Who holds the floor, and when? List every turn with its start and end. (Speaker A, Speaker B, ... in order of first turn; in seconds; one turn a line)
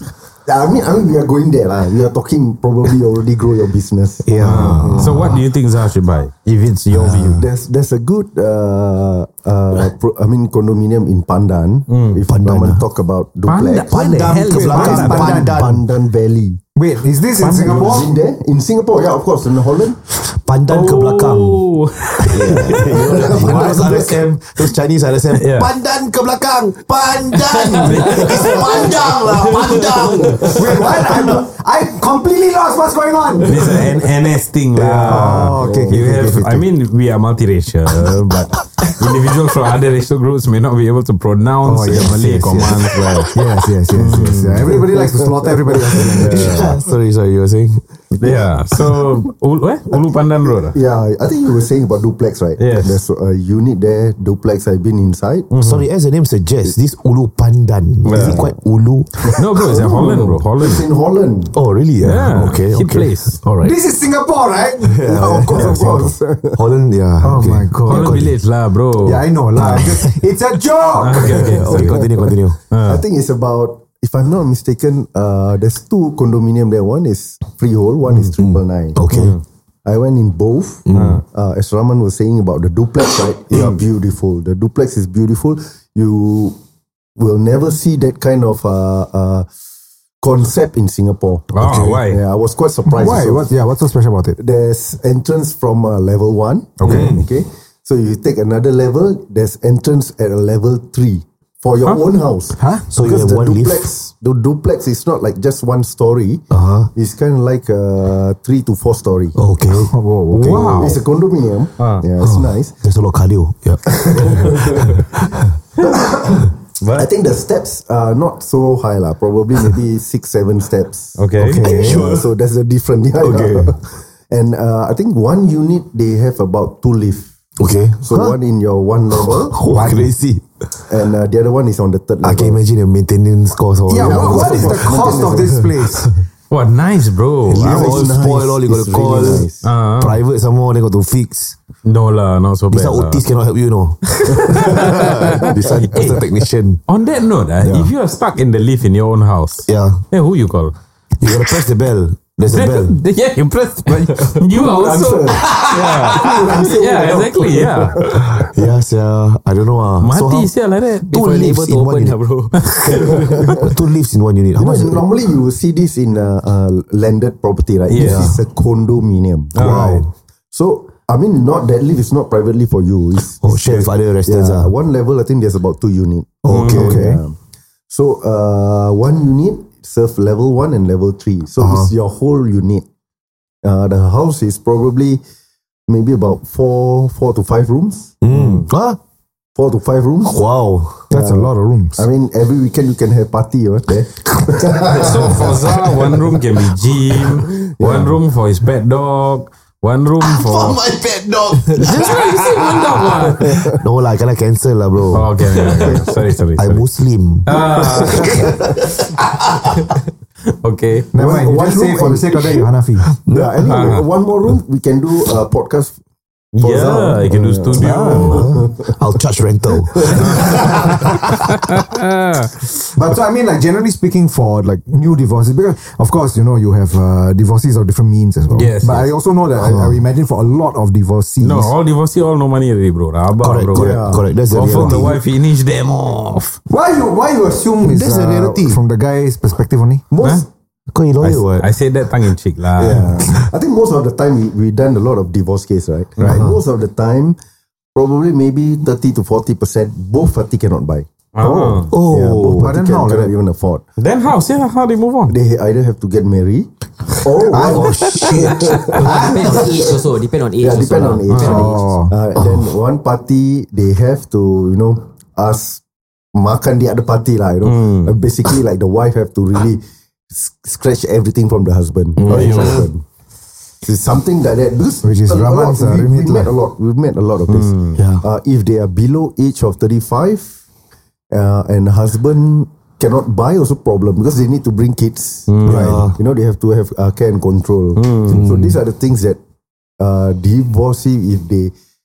Speaker A: 0.5-5.4
Speaker B: 4.2-5.4
Speaker C: 4.4-7.4
Speaker B: 6.9-7.3
Speaker A: 7.3-16.6
Speaker C: 11.9-12.2
Speaker B: 12.3-12.8
Speaker C: 13.4-15.3
Speaker D: 13.9-15.6
Speaker B: 13.9-15.8
Speaker D: 16.7-18.1
Speaker C: 17.4-18.1
Speaker A: 17.6-20.0
Speaker B: 20.1-21.7
Speaker C: 20.7-23.9
Speaker B: 22.2-31.4
Speaker A: 22.7-24.2
Speaker C: 25.3-25.7
Speaker C: 27.7-30.5
Speaker D: 30.5-33.8
Speaker C: 33.5-43.4
Speaker B: 33.6-33.9
Speaker B: 34.7-35.5
Speaker D: 35.1-36.7
Speaker A: 35.5-36.0
Speaker D: 41.6-46.8
Speaker C: 43.9-44.8
Speaker A: 44.8-45.2
Speaker C: 46.2-46.6
Speaker B: 46.2-47.9
Speaker C: 48.1-50.8
Speaker A: 50.6-55.5
Speaker C: 52.6-53.0
Speaker C: 55.5-55.9
Speaker B: 55.6-59.2
Speaker C: 58.0-58.5
Speaker A: 58.2-58.5
Speaker A: 59.2-61.5
Speaker C: 59.4-60.8
Speaker B: 61.5-63.7
Speaker C: 62.0-63.4
Speaker D: 63.6-66.2
Speaker B: 64.9-68.3
Speaker A: 65.0-66.6
Speaker D: 67.2-68.3
Speaker C: 67.8-69.8
Speaker D: 69.0-72.0
Speaker B: 69.6-70.2
Speaker C: 71.0-72.0
Speaker B: 71.3-72.6
Speaker C: 72.7-73.0
Speaker A: 72.8-79.0
Speaker B: 78.4-79.4
Speaker C: 79.1-79.4
Speaker A: 79.8-86.6
Speaker B: 80.8-81.2
Speaker C: 80.9-81.2
Speaker B: 83.5-83.8
Speaker A: 87.2-89.5
Speaker A: 90.2-91.5
Speaker C: 91.5-92.2
Speaker B: 91.6-92.0
Speaker A: 92.0-93.5
Speaker D: 92.8-94.4
Speaker A: 94.4-106.4
Speaker D: 96.8-97.2
Speaker B: 96.8-97.2
Speaker C: 101.8-102.1
Speaker D: 102.6-102.8
Speaker B: 102.9-103.9
Speaker B: 106.5-106.9
Speaker A: 106.9-109.3
Speaker B: 109.3-109.9
Speaker D: 109.7-110.9
Speaker C: 110.3-111.0
Speaker A: 110.5-112.7
Speaker C: 111.8-112.0
Speaker B: 112.2-115.4
Speaker A: 114.0-114.9
Speaker A: 115.8-127.3
Speaker C: 116.8-117.1
Speaker C: 121.2-121.6
Speaker B: 121.4-122.3
Speaker B: 123.2-123.8
Speaker B: 127.6-128.4
Speaker A: 128.0-129.6
Speaker B: 129.1-130.8
Speaker D: 129.7-130.1
Speaker A: 130.9-132.6
Speaker B: 132.2-136.2
Speaker D: 133.9-136.1
Speaker A: 133.9-135.7
Speaker C: 136.5-138.1
Speaker B: 137.5-141.6
Speaker A: 137.6-139.7
Speaker C: 139.6-140.2
Speaker C: 141.8-143.2
Speaker B: 142.7-146.8
Speaker C: 144.1-146.2
Speaker C: 146.8-150.7
Speaker B: 147.6-147.9
Speaker B: 149.7-150.0
Speaker B: 151.2-153.0
Speaker C: 152.5-158.2
Speaker A: 154.3-158.2
Speaker B: 158.1-160.5
Speaker C: 160.0-161.1
Speaker E: 161.0-163.1
Speaker B: 161.1-165.1
Speaker C: 162.6-163.6
Speaker A: 163.1-163.7
Speaker A: 164.5-169.6
Speaker C: 167.9-168.3
Speaker D: 168.0-168.3
Speaker C: 169.5-170.1
Speaker B: 169.6-170.1
Speaker A: 170.5-177.4
Speaker B: 173.4-174.7
Speaker B: 176.4-177.0
Speaker C: 176.4-177.0
Speaker D: 176.7-177.2
Speaker A: 177.9-182.8
Speaker D: 181.6-181.9
Speaker A: 183.6-185.2
Speaker A: 185.9-188.1
Speaker B: 188.2-189.0
Speaker C: 188.3-188.6
Speaker A: 189.5-190.4
Speaker B: 190.2-191.1
Speaker D: 191.1-192.1
Speaker A: 191.1-191.4
Speaker A: 191.9-196.1
Speaker B: 194.3-195.5
Speaker C: 194.9-200.8
Speaker A: 197.2-198.2
Speaker B: 200.2-209.8
Speaker C: 201.7-203.7
Speaker A: 203.2-203.8
Speaker C: 205.1-206.9
Speaker A: 205.8-206.1
Speaker C: 207.4-208.4
Speaker C: 210.6-211.1
Speaker D: 211.1-213.1
Speaker A: 211.2-212.4
Speaker B: 213.1-214.0
Speaker A: 213.3-216.0
Speaker C: 213.6-214.1
Speaker C: 216.5-218.5
Speaker A: 216.6-219.0
Speaker D: 217.8-218.5
Speaker B: 218.0-221.5
Speaker A: 219.9-221.1
Speaker C: 220.2-220.6
Speaker C: 221.5-222.5
Speaker D: 222.9-231.7
Speaker C: 228.5-229.1
Speaker B: 229.6-230.0
Speaker C: 231.4-236.6
Speaker B: 233.4-235.2
Speaker D: 233.7-234.1
Speaker A: 233.7-234.2
Speaker D: 236.7-240.1
Speaker B: 237.8-238.8
Speaker A: 240.1-240.4
Speaker B: 240.9-241.7
Speaker C: 241.2-243.2
Speaker A: 242.8-247.4
Speaker D: 246.2-246.5
Speaker C: 246.2-246.5
Speaker A: 247.9-253.8
Speaker C: 251.3-251.9
Speaker B: 251.9-252.8
Speaker D: 252.6-253.3
Speaker C: 254.0-255.4
Speaker A: 255.3-256.7
Speaker A: 257.2-259.9
Speaker D: 257.5-257.9
Speaker B: 257.7-258.8
Speaker C: 258.5-258.8
Speaker E: 258.9-261.8
Speaker D: 259.0-259.7
Speaker A: 260.6-265.8
Speaker C: 261.3-261.6
Speaker D: 261.3-262.1
Speaker B: 262.4-262.7
Speaker A: 266.3-273.0
Speaker C: 267.6-268.1
Speaker C: 272.2-272.9
Speaker A: 273.8-280.6
Speaker D: 275.0-276.5
Speaker C: 277.5-278.0
Speaker B: 277.9-278.2
Speaker A: 281.3-285.6
Speaker C: 285.5-286.0
Speaker B: 285.6-286.2
Speaker D: 285.7-286.1
Speaker A: 286.1-289.4
Speaker C: 287.9-288.4
Speaker B: 288.3-288.8
Speaker A: 290.0-291.7